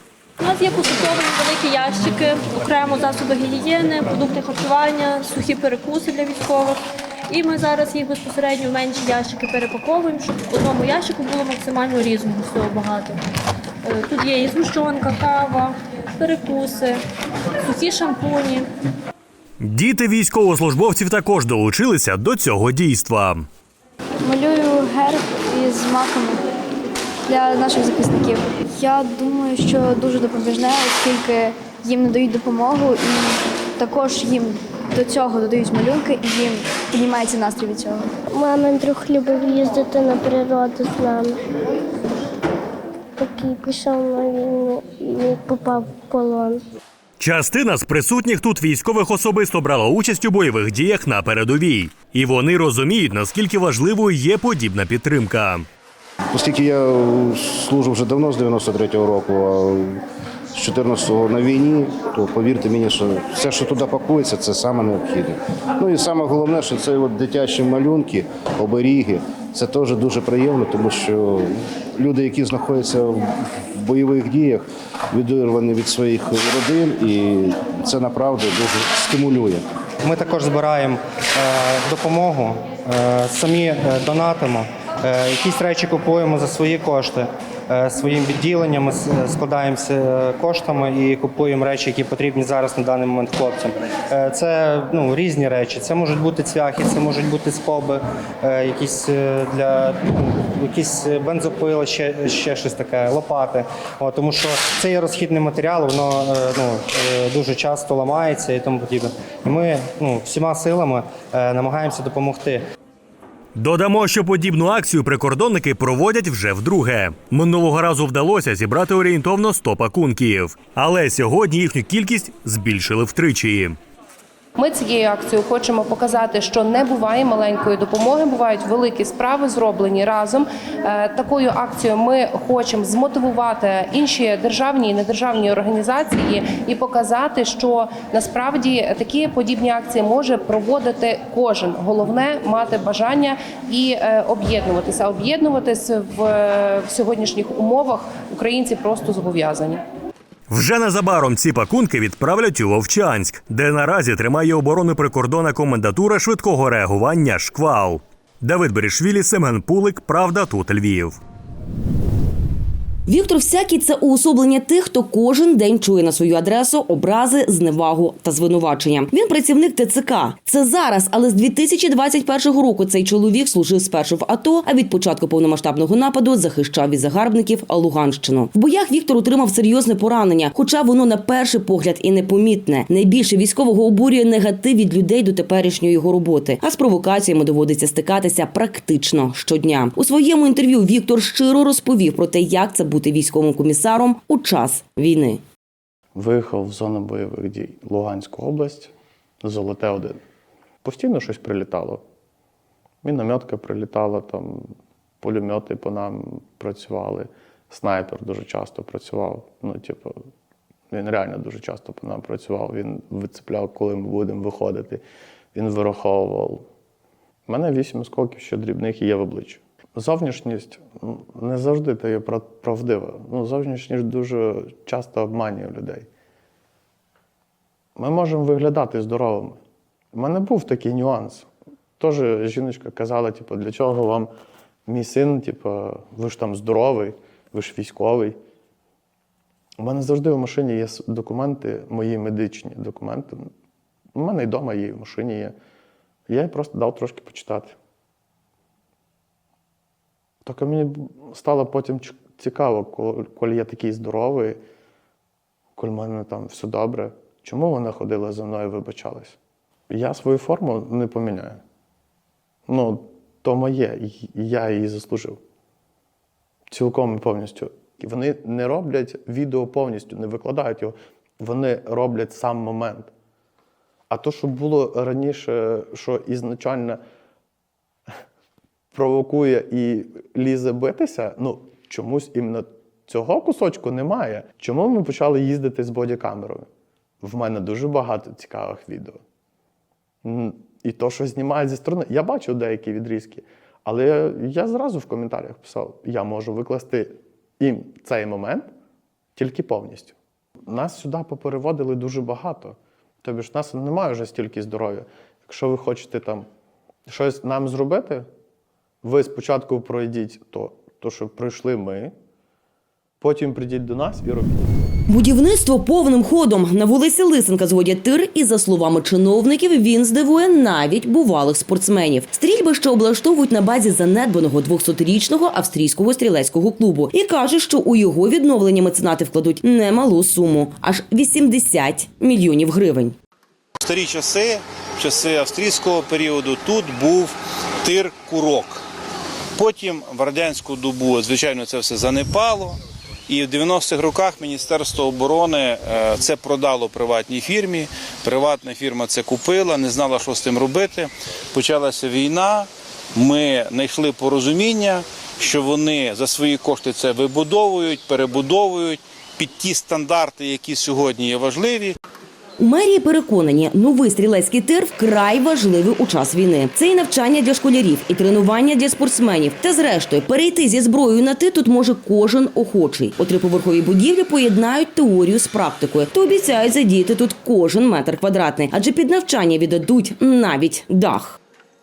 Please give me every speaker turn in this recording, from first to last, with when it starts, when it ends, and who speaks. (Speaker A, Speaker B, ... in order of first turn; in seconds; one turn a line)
Speaker A: 0.4-6.8
Speaker A: 7.3-13.2
Speaker A: 13.8-17.0
Speaker A: 17.6-18.7
Speaker B: 19.6-23.5
Speaker C: 24.2-26.4
Speaker C: 27.3-38.1
Speaker D: 38.3-41.4
Speaker D: 43.2-46.6
Speaker B: 47.2-55.7
Speaker E: 56.3-60.0
Speaker E: 60.5-79.6
Speaker F: 80.0-112.6
Speaker B: 113.5-123.8
Speaker G: 124.6-149.8
Speaker B: 150.5-161.2
Speaker H: 163.1-195.4
Speaker I: 196.1-200.2
Speaker I: 200.8-202.0
Speaker I: 203.0-204.7
Speaker I: 205.2-210.1
Speaker I: 210.9-215.0
Speaker I: 215.5-216.6
Speaker I: 217.5-226.1
Speaker I: 228.0-229.6
Speaker I: 230.1-231.5
Speaker I: 232.0-234.3
Speaker I: 234.9-238.4
Speaker I: 239.8-243.5
Speaker I: 244.2-245.5
Speaker I: 246.3-247.8
Speaker I: 250.4-254.6
Speaker I: 255.8-259.4
Speaker I: 259.9-261.6
Speaker I: 262.7-265.4
Speaker I: 266.7-273.1
Speaker I: 274.1-277.0
Speaker I: 278.9-286.7
Speaker I: 287.2-289.2
Speaker I: 290.2-298.7
Speaker I: 299.4-300.1
Speaker I: 300.7-306.5
Speaker I: 307.1-308.3
Speaker I: 309.0-312.1
Speaker I: 313.2-314.6
Speaker H: 315.1-333.1
Speaker J: 333.8-338.8
Speaker J: 339.6-342.8
Speaker J: 343.3-361.9
Speaker H: 362.6-381.4